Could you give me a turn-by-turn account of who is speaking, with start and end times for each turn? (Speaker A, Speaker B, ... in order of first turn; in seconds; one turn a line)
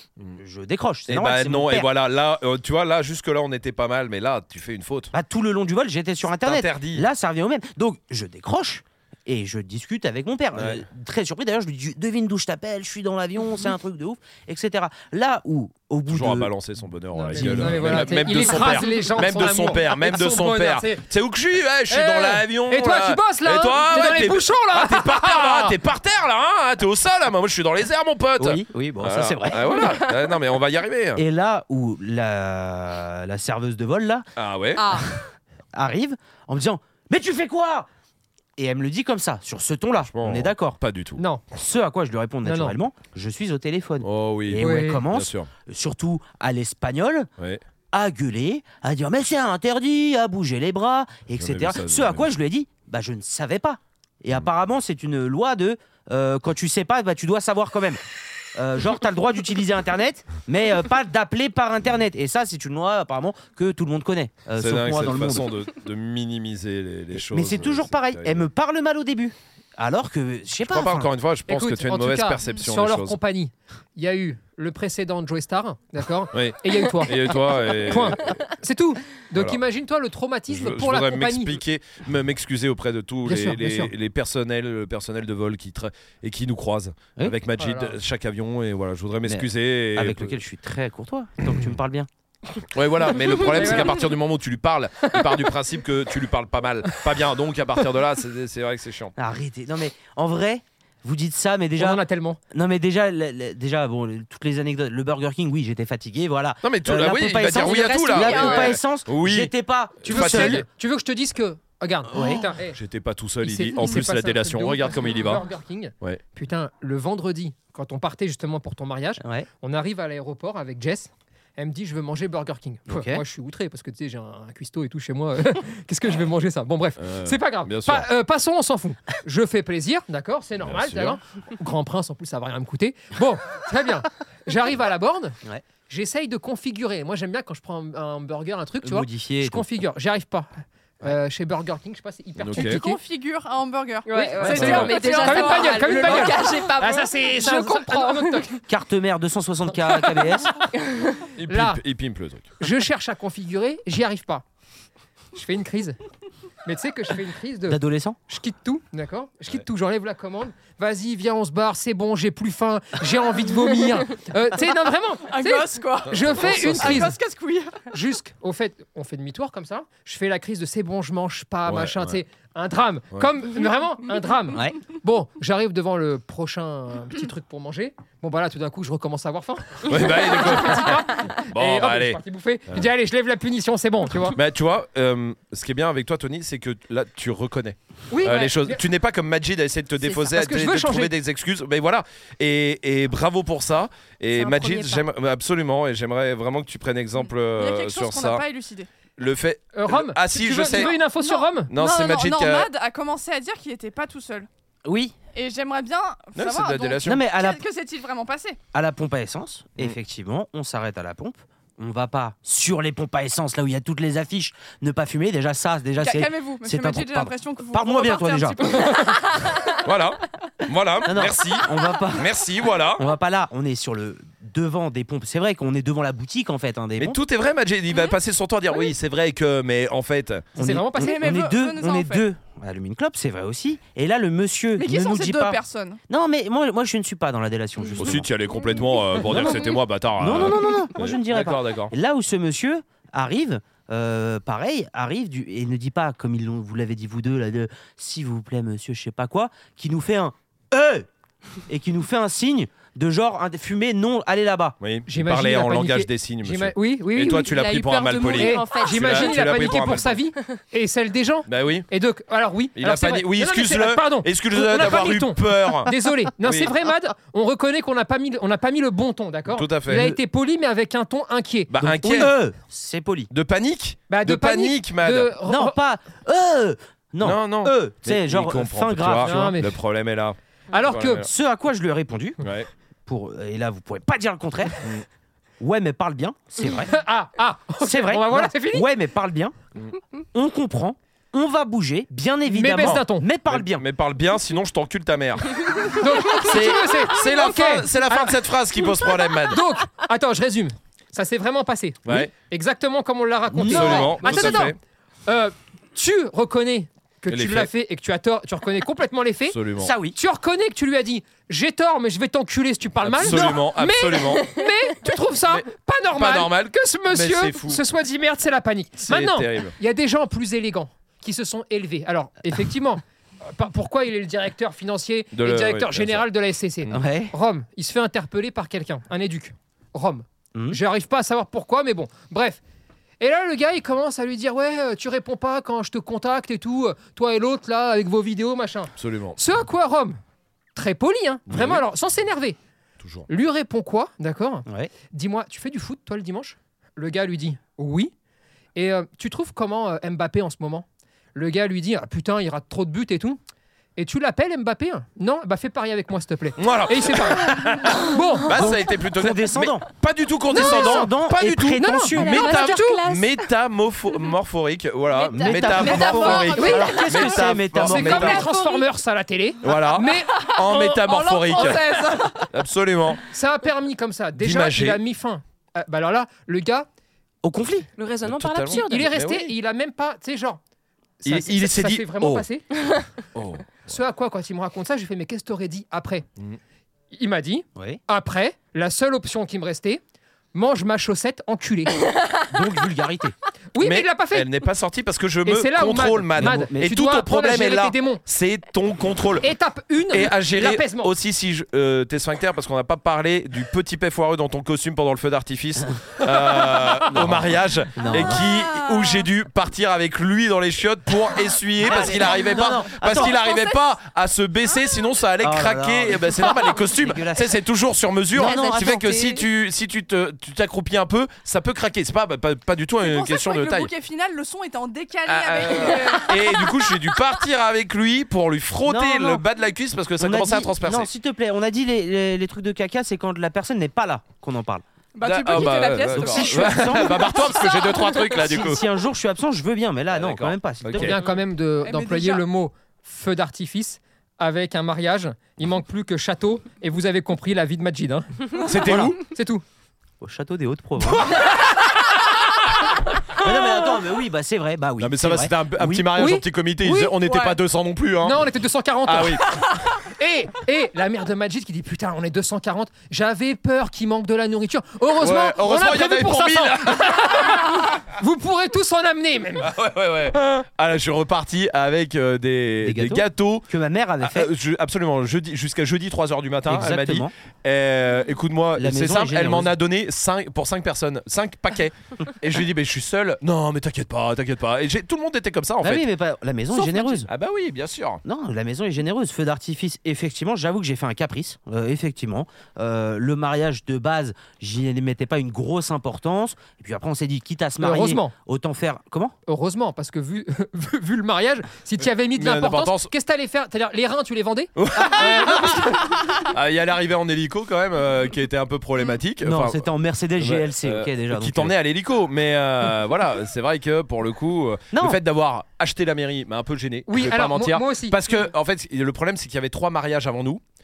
Speaker A: 0.4-1.9
Speaker B: 1.1-5.1
Speaker A: 5.1-16.5
Speaker B: 6.4-7.1
Speaker B: 10.6-10.8
Speaker B: 16.1-31.2
Speaker C: 17.1-21.1
Speaker A: 17.4-18.1
Speaker C: 21.9-25.8
Speaker A: 28.4-29.7
Speaker D: 29.8-30.1
Speaker A: 31.2-34.3
Speaker B: 34.4-35.0
Speaker D: 34.8-35.2
Speaker A: 35.7-37.9
Speaker A: 38.6-40.8
Speaker B: 40.0-41.2
Speaker C: 41.2-41.4
Speaker A: 41.5-47.3
Speaker C: 42.5-42.8
Speaker B: 44.0-45.5
Speaker C: 44.6-45.0
Speaker A: 47.9-58.0
Speaker B: 51.4-52.3
Speaker A: 58.5-65.5
Speaker B: 64.6-68.5
Speaker A: 67.1-71.1
Speaker B: 70.7-73.2
Speaker C: 71.5-81.6
Speaker B: 76.3-78.4
Speaker B: 80.5-90.4
Speaker C: 83.2-83.9
Speaker C: 87.6-88.0
Speaker A: 89.3-92.1
Speaker B: 92.7-99.1
Speaker C: 93.4-94.1
Speaker A: 99.2-102.0
Speaker C: 101.8-102.4
Speaker A: 102.5-110.6
Speaker B: 106.6-109.5
Speaker E: 107.7-108.8
Speaker B: 110.0-110.7
Speaker C: 110.0-112.8
Speaker A: 112.1-112.5
Speaker B: 112.7-115.5
Speaker C: 113.4-135.4
Speaker A: 119.2-119.5
Speaker A: 122.9-123.2
Speaker B: 127.0-128.1
Speaker B: 130.6-131.2
Speaker C: 135.9-140.5
Speaker A: 138.8-139.7
Speaker C: 141.0-143.0
Speaker B: 142.4-142.8
Speaker E: 142.5-146.3
Speaker D: 144.1-148.5
Speaker C: 144.1-148.6
Speaker B: 144.6-144.9
Speaker A: 148.7-150.5
Speaker D: 150.8-151.2
Speaker B: 151.4-152.5
Speaker C: 151.5-151.8
Speaker C: 152.6-154.4
Speaker C: 155.3-156.0
Speaker C: 156.7-167.2
Speaker A: 157.7-158.2
Speaker E: 165.3-167.9
Speaker B: 166.2-167.1
Speaker C: 167.9-184.4
Speaker B: 171.7-172.2
Speaker A: 174.5-174.8
Speaker B: 179.8-182.2
Speaker B: 184.3-198.4
Speaker C: 188.1-188.8
Speaker C: 190.1-191.1
Speaker D: 194.4-195.0
Speaker E: 197.2-198.9
Speaker B: 199.2-200.9
Speaker C: 199.7-201.7
Speaker E: 200.6-204.5
Speaker B: 201.7-202.7
Speaker A: 204.8-205.2
Speaker E: 205.3-208.6
Speaker B: 206.4-207.2
Speaker A: 207.0-207.6
Speaker A: 208.7-218.6
Speaker E: 216.0-219.5
Speaker B: 219.8-223.1
Speaker A: 221.1-222.3
Speaker A: 223.0-227.2
Speaker B: 227.0-230.5
Speaker C: 230.6-231.3
Speaker A: 230.6-238.3
Speaker E: 231.0-232.3
Speaker E: 234.8-236.0
Speaker B: 238.0-241.9
Speaker A: 239.2-239.6
Speaker A: 240.2-251.1
Speaker A: 251.7-254.8
Speaker B: 254.8-260.2
Speaker C: 255.1-257.5
Speaker D: 257.2-259.4
Speaker C: 258.3-272.3
Speaker B: 261.5-261.9
Speaker B: 262.8-266.7
Speaker B: 269.5-270.1
Speaker A: 269.9-270.2
Speaker B: 271.7-272.3
Speaker A: 271.8-273.3
Speaker B: 273.3-275.3
Speaker C: 274.1-275.8
Speaker A: 275.5-279.5
Speaker B: 277.2-281.3
Speaker C: 279.2-279.8
Speaker C: 280.7-281.3
Speaker A: 281.2-282.4
Speaker B: 282.4-282.7
Speaker A: 283.1-284.8
Speaker A: 285.6-286.9
Speaker C: 286.7-288.9
Speaker A: 287.8-289.6
Speaker A: 290.3-293.9
Speaker C: 292.5-293.3
Speaker B: 292.8-299.6
Speaker C: 295.9-298.4
Speaker C: 299.5-309.6
Speaker B: 302.1-302.3
Speaker A: 303.5-304.7
Speaker B: 303.6-304.8
Speaker B: 307.3-307.7
Speaker B: 309.5-309.9
Speaker A: 309.8-310.2
Speaker C: 310.1-332.6
Speaker B: 313.0-314.5
Speaker A: 313.3-313.6
Speaker B: 315.5-317.8
Speaker B: 319.1-319.8
Speaker B: 325.3-326.2
Speaker A: 326.9-327.3
Speaker C: 333.2-340.2
Speaker B: 339.0-339.4
Speaker C: 340.8-342.6
Speaker B: 341.5-341.8
Speaker B: 343.0-343.3
Speaker C: 343.3-348.1
Speaker A: 344.7-344.9
Speaker C: 348.8-353.4
Speaker C: 354.0-358.6
Speaker B: 356.6-368.5
Speaker A: 358.5-359.9
Speaker A: 360.5-362.4
Speaker C: 360.6-361.0
Speaker C: 361.8-363.0
Speaker D: 362.1-363.5
Speaker D: 365.2-367.4
Speaker A: 365.2-368.4
Speaker E: 365.9-366.9
Speaker C: 367.8-371.9
Speaker D: 368.4-368.9
Speaker B: 369.6-371.8
Speaker E: 371.0-372.5
Speaker B: 372.5-373.2
Speaker C: 373.3-376.9
Speaker B: 374.4-375.0
Speaker A: 377.4-377.9
Speaker D: 378.0-378.9
Speaker B: 378.2-379.5
Speaker C: 378.7-380.6
Speaker A: 378.8-379.1
Speaker C: 381.2-382.7
Speaker B: 381.2-382.5
Speaker B: 383.4-383.9
Speaker C: 383.9-386.3
Speaker C: 387.1-390.0
Speaker A: 387.8-388.0
Speaker C: 390.5-392.0
Speaker A: 392.5-393.4
Speaker C: 393.7-394.5
Speaker B: 393.8-399.5
Speaker C: 395.5-398.2
Speaker A: 396.4-396.9
Speaker C: 399.4-401.1
Speaker B: 400.1-423.9
Speaker A: 408.0-408.4
Speaker E: 408.2-409.3
Speaker A: 411.8-413.4
Speaker A: 415.4-417.5
Speaker A: 418.4-419.1
Speaker D: 418.4-419.5
Speaker E: 423.0-427.2
Speaker B: 425.3-431.1
Speaker A: 428.9-429.4
Speaker A: 430.2-434.8
Speaker E: 435.1-438.4
Speaker B: 435.2-438.8
Speaker A: 435.5-437.5
Speaker A: 438.3-441.2
Speaker B: 440.1-441.2
Speaker C: 440.9-449.6
Speaker E: 441.8-442.5
Speaker B: 448.6-449.2
Speaker A: 448.9-449.1
Speaker A: 450.2-451.4
Speaker C: 451.1-451.9
Speaker A: 453.4-456.1
Speaker B: 455.0-458.4
Speaker C: 456.2-457.6
Speaker C: 458.2-469.7
Speaker B: 459.1-459.5
Speaker B: 465.2-467.4
Speaker B: 469.6-473.7
Speaker A: 472.8-474.5
Speaker B: 474.2-486.1
Speaker A: 476.7-477.3
Speaker A: 478.8-479.7
Speaker A: 485.8-487.3
Speaker B: 487.3-488.2
Speaker A: 488.2-499.4
Speaker C: 497.8-498.3
Speaker C: 499.5-506.1
Speaker B: 502.3-503.1
Speaker B: 504.8-520.6
Speaker A: 509.4-511.7
Speaker A: 514.9-515.2
Speaker C: 517.1-518.2